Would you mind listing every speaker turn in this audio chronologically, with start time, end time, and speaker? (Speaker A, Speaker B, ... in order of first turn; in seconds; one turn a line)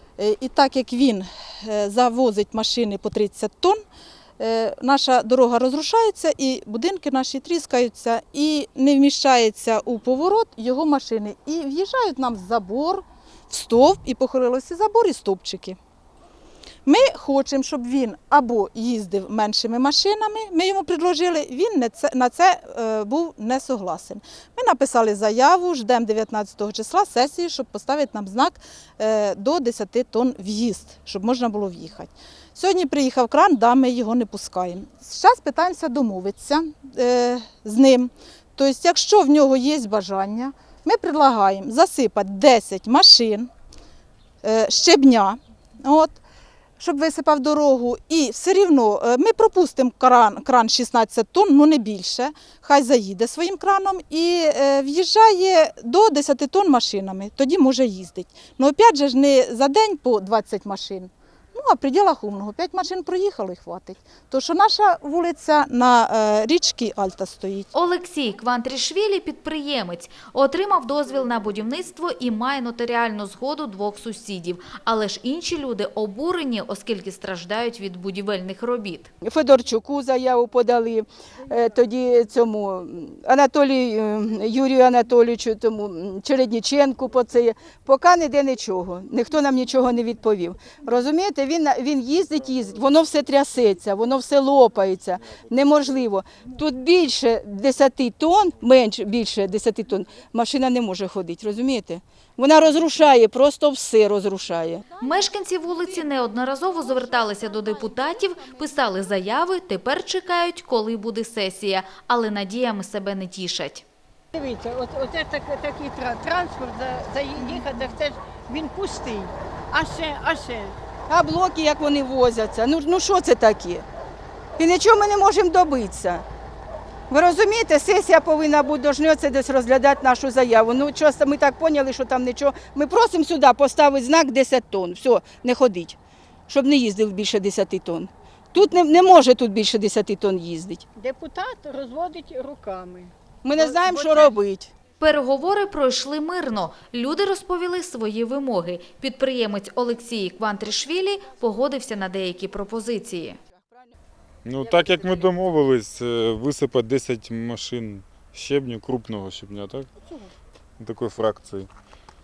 Speaker A: 0.2-3.8
Speaker A: 4.4-15.8
Speaker A: 16.9-43.5
Speaker A: 44.4-46.2
Speaker A: 46.8-67.7
Speaker B: 67.7-79.1
Speaker C: 79.2-104.9
Speaker B: 105.0-113.8
Speaker D: 114.3-120.8
Speaker C: 121.1-123.8
Speaker C: 124.6-126.2
Speaker C: 127.1-136.0
Speaker C: 136.5-140.8
Speaker D: 141.0-144.4
Speaker C: 143.4-144.7
Speaker B: 145.0-153.4
Speaker C: 153.5-153.9
Speaker E: 154.4-159.9
Speaker E: 160.8-161.7